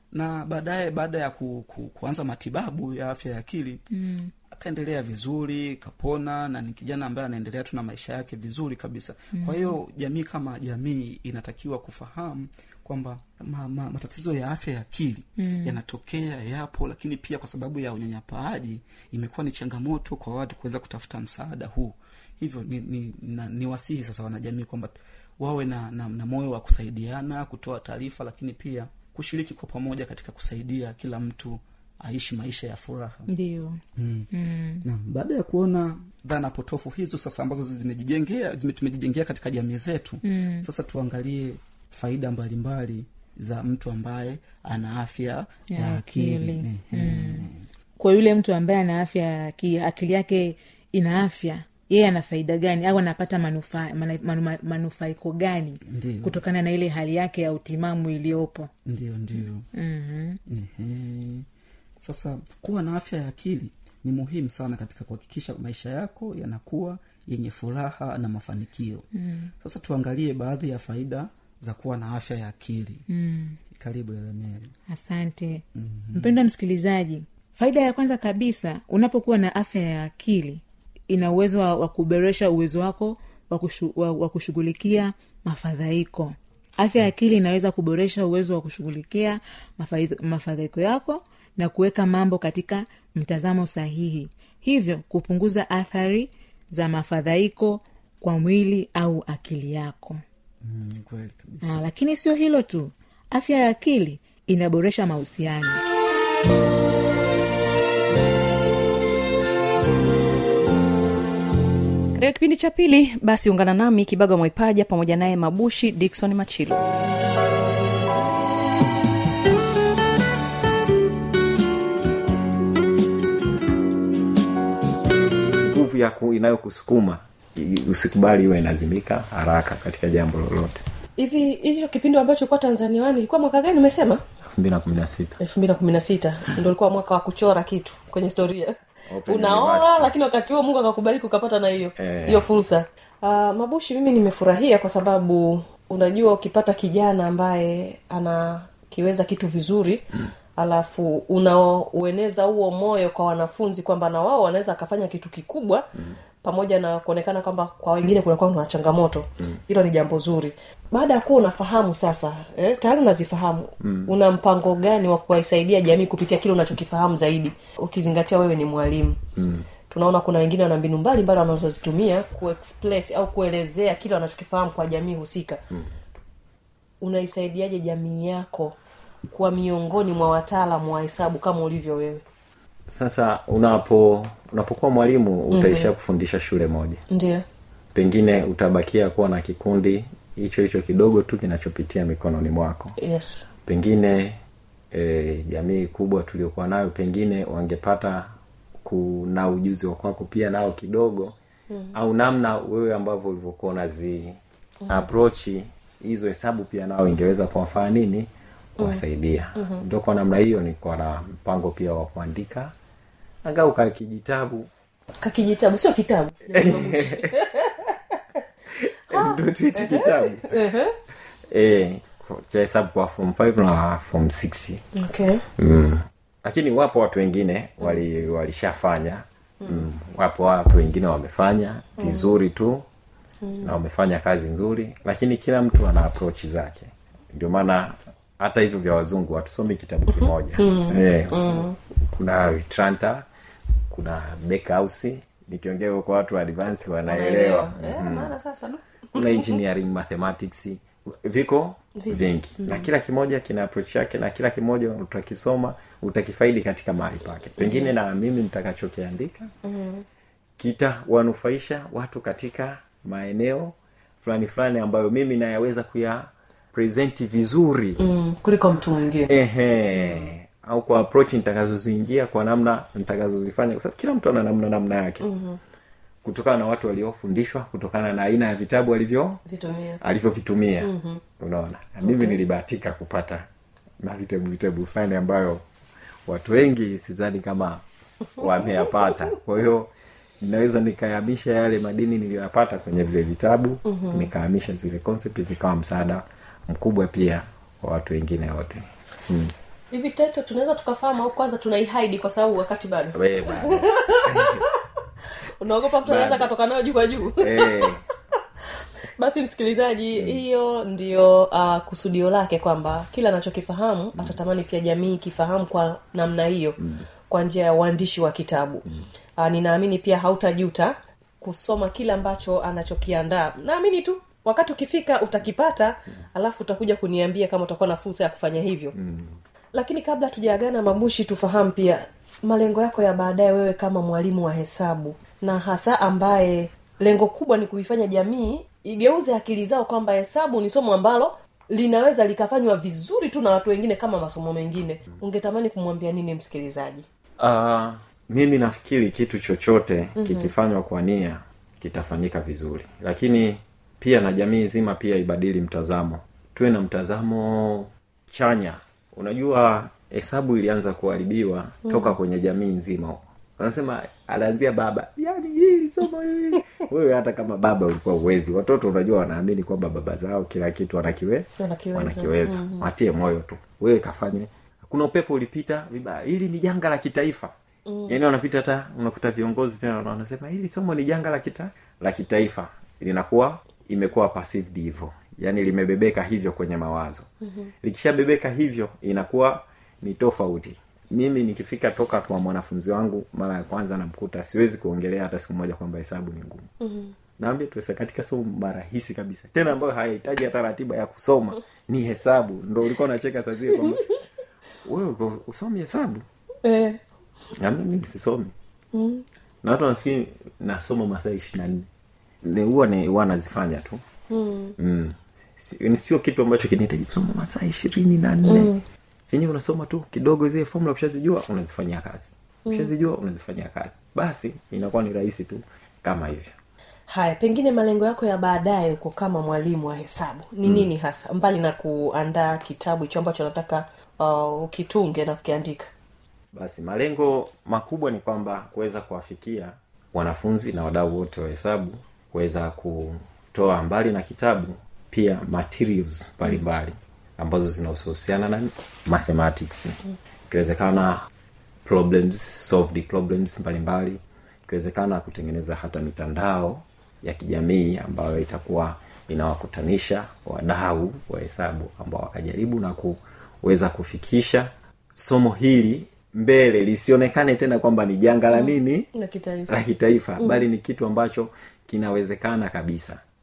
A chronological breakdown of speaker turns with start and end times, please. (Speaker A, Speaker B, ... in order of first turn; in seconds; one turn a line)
Speaker A: 0.1-3.8
Speaker B: 3.9-4.3
Speaker A: 4.5-33.3
Speaker B: 9.3-9.7
Speaker B: 15.4-15.8
Speaker B: 33.3-33.8
Speaker A: 34.0-34.3
Speaker B: 34.3-34.9
Speaker A: 34.8-47.6
Speaker B: 40.2-40.6
Speaker B: 45.7-47.5
Speaker B: 48.0-58.7
Speaker A: 55.9-56.4
Speaker A: 58.9-59.6
Speaker B: 59.7-60.4
Speaker A: 60.5-61.5
Speaker A: 62.0-69.0
Speaker B: 69.1-69.5
Speaker A: 69.6-73.0
Speaker B: 73.1-73.6
Speaker A: 73.7-74.7
Speaker B: 74.9-100.2
Speaker A: 75.8-76.4
Speaker A: 100.6-101.8
Speaker B: 101.6-105.8
Speaker C: 112.2-116.8
Speaker D: 125.6-130.8
Speaker E: 131.2-134.2
Speaker D: 134.5-135.4
Speaker E: 135.4-150.0
Speaker D: 139.1-140.1
Speaker D: 142.0-142.5
Speaker E: 150.6-155.8
Speaker E: 156.4-169.2
Speaker D: 163.8-164.1
Speaker D: 169.4-169.7
Speaker E: 169.9-175.6
Speaker E: 177.0-182.2
Speaker D: 182.9-187.0
Speaker E: 185.5-185.9
Speaker E: 187.1-187.4
Speaker D: 187.9-192.9
Speaker E: 193.0-193.5
Speaker D: 193.7-194.4
Speaker D: 194.9-201.3
Speaker D: 201.9-212.7
Speaker D: 213.4-214.7
Speaker E: 215.2-218.2
Speaker D: 216.5-217.3
Speaker D: 218.8-220.6
Speaker E: 219.1-220.9
Speaker D: 221.5-224.8
Speaker E: 224.9-225.4
Speaker D: 225.6-232.8
Speaker E: 232.0-232.3
Speaker E: 233.4-233.7
Speaker D: 233.6-243.3
Speaker E: 240.1-241.8
Speaker D: 243.9-248.3
Speaker E: 247.1-249.6
Speaker D: 249.1-259.5
Speaker E: 252.0-252.9
Speaker E: 257.6-257.9
Speaker E: 259.6-260.0
Speaker D: 260.6-268.0
Speaker E: 268.0-269.3
Speaker D: 269.3-275.2
Speaker E: 275.2-275.6
Speaker D: 276.2-279.4
Speaker E: 279.5-280.0
Speaker D: 280.0-283.4
Speaker E: 280.8-281.2
Speaker E: 282.0-282.4
Speaker D: 284.0-285.6
Speaker D: 286.3-287.8
Speaker D: 288.4-299.5
Speaker E: 293.9-294.3
Speaker E: 299.9-304.8
Speaker D: 303.1-304.6
Speaker E: 305.6-307.9
Speaker D: 306.0-306.5
Speaker D: 307.4-308.0
Speaker E: 309.2-316.8
Speaker E: 317.3-328.9
Speaker D: 328.9-329.4
Speaker E: 329.7-347.0
Speaker D: 347.4-377.5
Speaker E: 350.2-350.5
Speaker E: 361.8-362.1
Speaker E: 371.6-372.9
Speaker E: 377.9-378.2
Speaker D: 378.1-387.3
Speaker E: 387.4-387.7
Speaker D: 387.8-396.7
Speaker E: 396.8-397.1
Speaker D: 397.4-404.0
Speaker D: 404.8-406.2
Speaker E: 406.6-407.0
Speaker D: 407.6-408.5
Speaker E: 408.9-409.2
Speaker D: 409.6-411.9
Speaker D: 412.4-414.0
Speaker E: 414.3-414.8
Speaker D: 414.8-418.7
Speaker E: 418.4-418.8
Speaker D: 419.3-426.5
Speaker E: 427.1-435.9
Speaker D: 436.5-451.2
Speaker D: 451.8-469.1
Speaker E: 468.5-469.8
Speaker D: 469.7-473.2